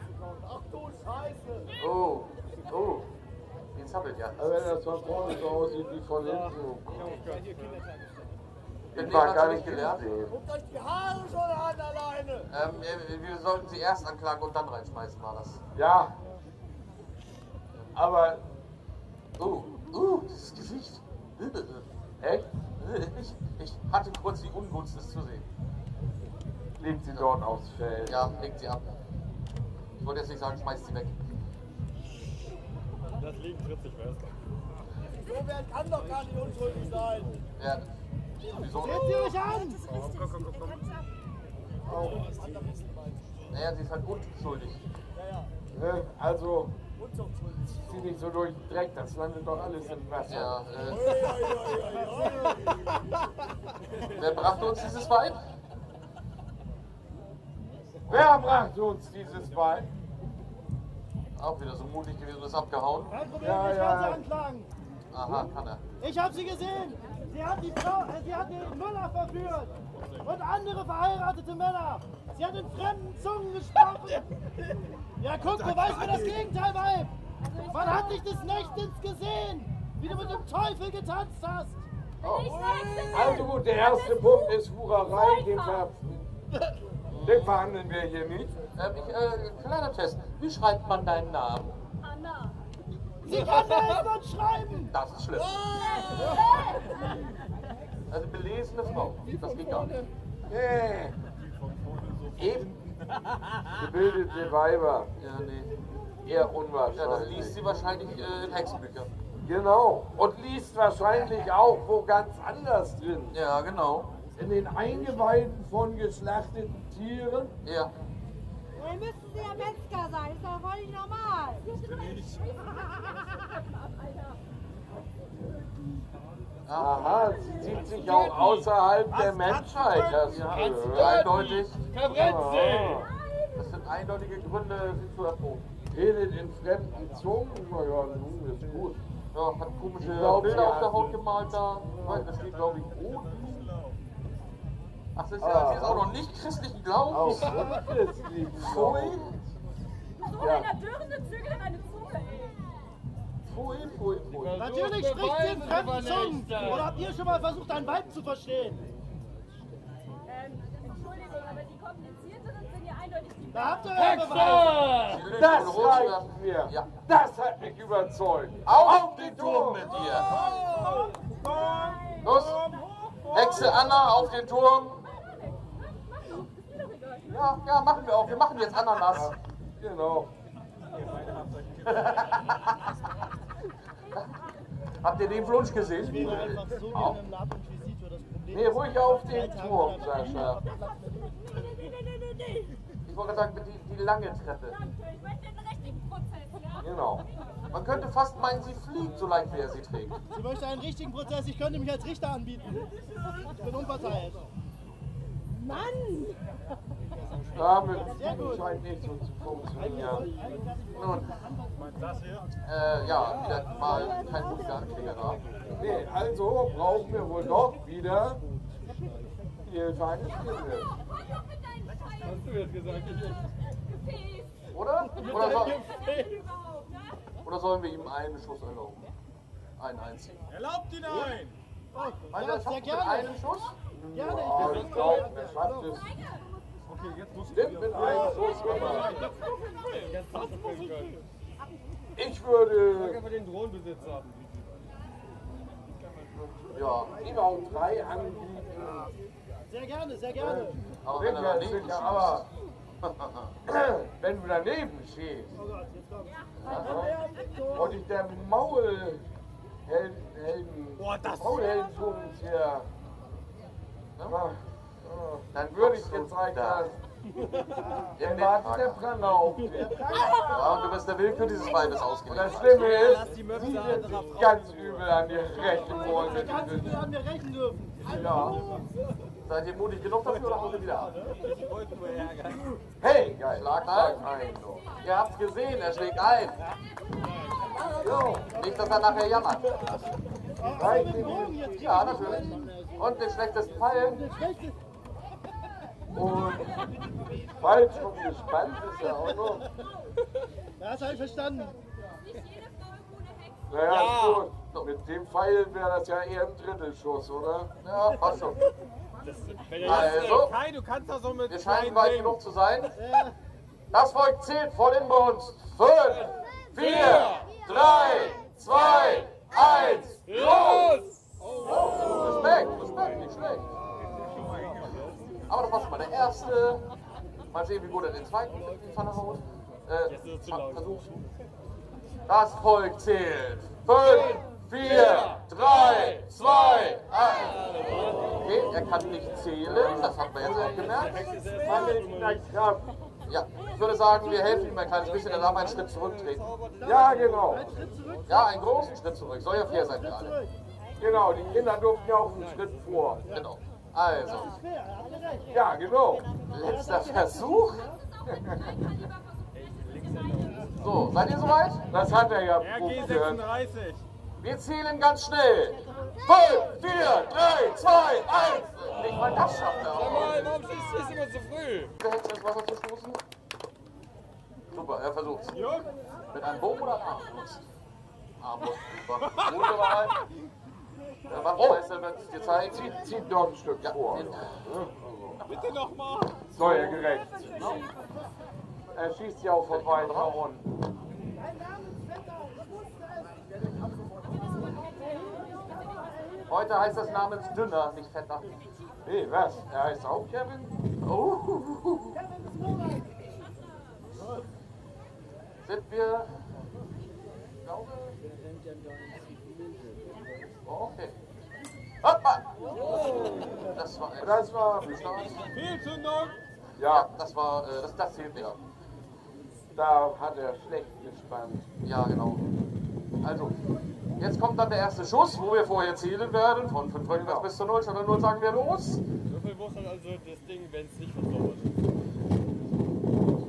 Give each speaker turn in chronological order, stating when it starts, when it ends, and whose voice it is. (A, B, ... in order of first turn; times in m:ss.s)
0:01.8-0:03.1 A
0:03.7-0:04.6 A
0:04.4-0:07.3 B
0:07.0-0:07.8 C
0:08.9-0:10.4 B
0:08.9-0:10.2 A
0:12.5-0:15.6 A
0:15.7-0:16.1 B
0:17.9-0:18.4 B
0:19.4-0:21.8 A
0:22.2-0:22.5 B
0:22.8-0:25.4 A
0:26.8-0:28.3 B
0:28.1-0:28.8 A
0:30.0-0:31.2 A
0:33.2-0:34.4 C
0:36.1-0:37.2 C
0:37.6-0:37.9 A
0:38.4-0:39.6 A
0:38.8-0:39.8 D
0:40.2-0:40.9 E
0:41.8-0:42.3 B
0:43.5-0:44.8 A
0:45.7-0:46.7 B
0:47.8-0:50.6 B
0:50.3-0:51.5 A
0:51.5-0:52.3 C
0:54.1-0:55.4 A
0:58.1-0:59.9 B
1:01.4-1:03.1 A
1:03.2-1:04.7 D
1:03.4-1:04.3 B
1:05.1-1:05.8 A
1:06.0-1:14.2 D
1:15.2-1:21.8 D
1:15.6-1:16.3 C
1:22.2-1:22.6 A
1:22.6-1:23.3 C
1:23.1-1:26.2 B
1:27.2-1:27.5 A
1:27.2-1:28.5 B
1:28.8-1:31.8 A
1:33.2-1:34.9 D
1:33.3-1:33.9 C
1:34.9-1:35.7 A
1:35.7-1:36.8 C
1:38.1-1:40.1 A
1:40.5-1:41.2 B
1:42.4-1:42.7 B
1:43.7-1:45.1 B
1:45.2-1:45.7 A
1:46.2-1:47.6 B
1:46.9-1:49.1 A
1:49.4-1:53.3 B
1:53.3-1:54.1 A
1:54.4-1:57.6 B
1:57.6-1:57.9 A
1:58.8-2:01.7 E
2:01.8-2:02.5 C
2:06.6-2:07.4 A
2:06.8-2:11.2 B
2:07.9-2:13.1 C
2:10.2-2:12.2 A
2:12.0-2:13.1 B
2:13.5-2:15.6 A
2:15.9-2:19.0 B
2:19.3-2:22.9 A
2:20.0-2:21.2 B
2:21.9-2:23.7 B
2:25.2-2:27.7 A
2:25.4-2:26.1 B
2:27.1-2:29.5 B
2:28.6-2:29.3 A
2:30.4-2:30.8 B
2:33.4-2:34.5 A
2:34.3-2:37.0 C
2:34.6-2:38.8 D
2:43.5-2:44.9 D
2:43.9-2:45.2 C
2:45.0-2:46.9 A
2:45.3-2:49.9 B
2:48.6-2:50.5 A
2:50.1-2:53.9 C
2:52.2-2:52.7 A
2:53.3-2:55.1 A
2:57.2-2:59.3 A
2:59.1-3:00.3 B
3:00.9-3:02.2 C
3:01.9-3:02.8 A
3:05.0-3:07.1 A
3:06.2-3:08.5 D
3:08.5-3:10.6 B
3:09.3-3:11.5 D
3:13.0-3:14.8 A
3:16.8-3:17.3 B
3:17.7-3:20.2 A
3:20.4-3:22.8 D
3:23.6-3:24.3 D
3:25.7-3:26.3 D
3:27.5-3:30.4 B
3:30.9-3:31.3 A
3:32.6-3:35.4 A
3:35.7-3:38.4 B
3:39.6-3:41.0 B
3:42.0-3:43.5 C
3:44.7-3:45.9 A
3:45.2-3:46.6 C
3:47.4-3:49.1 A
3:49.8-3:50.4 A
3:50.5-3:51.5 C
3:52.0-3:52.9 D
3:52.3-3:53.7 A
3:53.9-3:56.1 B
3:54.4-3:55.5 D
3:56.9-4:01.2 C
3:57.5-3:59.2 B
4:02.2-4:03.2 B
4:03.0-4:04.3 C
4:06.7-4:07.2 A
4:07.1-4:09.1 B
4:09.7-4:10.4 D
4:10.4-4:12.5 B
4:11.0-4:12.4 A
4:13.0-4:13.5 A
4:13.6-4:15.5 B
4:16.6-4:17.1 A
4:16.7-4:17.6 D
4:16.8-4:19.2 B
4:19.8-4:22.9 B
4:21.0-4:21.6 C
4:24.3-4:27.0 B
4:25.5-4:26.8 A
4:27.4-4:27.9 C
4:28.1-4:30.1 B
4:28.2-4:29.0 A
4:30.0-4:30.5 D
4:30.4-4:32.9 A
4:32.3-4:37.1 B
4:32.7-4:34.8 C
4:35.8-4:38.5 D
4:38.0-4:38.6 B
4:39.4-4:41.2 A
4:41.3-4:42.8 C
4:43.0-4:44.8 B
4:43.5-4:46.6 A
4:47.8-4:48.5 B
4:48.5-4:49.7 A
4:50.6-4:52.7 D
4:50.7-4:51.6 B
4:51.7-4:54.2 A
4:54.3-4:54.7 D
4:56.1-4:56.7 B
4:57.6-4:59.7 B
5:00.8-5:01.7 D
5:03.7-5:07.7 B
5:03.9-5:04.4 C
5:07.8-5:08.6 A
5:09.2-5:12.3 C
5:09.8-5:10.6 A
5:11.5-5:13.0 A
5:13.9-5:21.0 A
5:16.7-5:17.5 C
5:20.3-5:22.3 C
5:21.6-5:23.7 A
5:24.0-5:25.1 C
5:25.5-5:26.8 A
5:27.5-5:31.1 A
5:30.1-5:30.8 C
5:32.3-5:41.3 A
5:34.3-5:35.4 C
5:37.5-5:38.5 C
5:40.1-5:42.8 B
5:40.5-5:42.4 C
5:43.3-5:46.5 A
5:45.3-5:45.8 C
5:46.3-5:47.8 C
5:46.8-5:47.8 B
5:47.7-5:48.2 D
5:48.3-5:50.4 A
5:51.0-5:53.2 B
5:53.3-5:54.6 A
5:54.9-5:55.4 D
5:55.5-5:56.3 B
5:56.5-5:57.9 A
5:58.2-5:58.8 B
5:59.7-6:00.7 C
6:00.8-6:01.8 A
6:01.9-6:03.4 B
6:02.6-6:04.0 C
6:04.4-6:10.5 A
6:09.9-6:11.9 C
6:12.0-6:13.2 A
6:14.7-6:15.6 A
6:15.6-6:15.9 C
6:16.3-6:17.6 A
6:18.4-6:20.2 A
6:21.3-6:23.0 A
6:21.6-6:21.8 B
6:22.7-6:25.4 B
6:23.8-6:24.6 A
6:25.4-6:25.7 A
6:25.5-6:27.0 C
6:26.5-6:27.8 B
6:27.6-6:27.8 A
6:28.9-6:30.6 B
6:29.7-6:30.4 A
6:31.5-6:33.4 D
6:34.8-6:36.3 D
6:36.5-6:38.6 A
6:39.0-6:40.7 B
6:41.0-6:42.2 A
6:42.4-6:43.0 D
6:45.6-6:46.3 A
6:47.6-6:48.2 A
6:50.6-6:51.1 A
6:52.0-6:55.5 A
6:53.0-6:53.6 C
6:54.2-6:54.9 B
6:55.5-6:56.4 C
6:56.8-6:57.1 B
6:56.8-6:58.6 A
6:59.7-7:01.6 B
7:01.8-7:02.5 A
7:03.2-7:03.6 A
7:04.2-7:09.0 A
7:07.1-7:07.5 B
7:09.3-7:11.8 C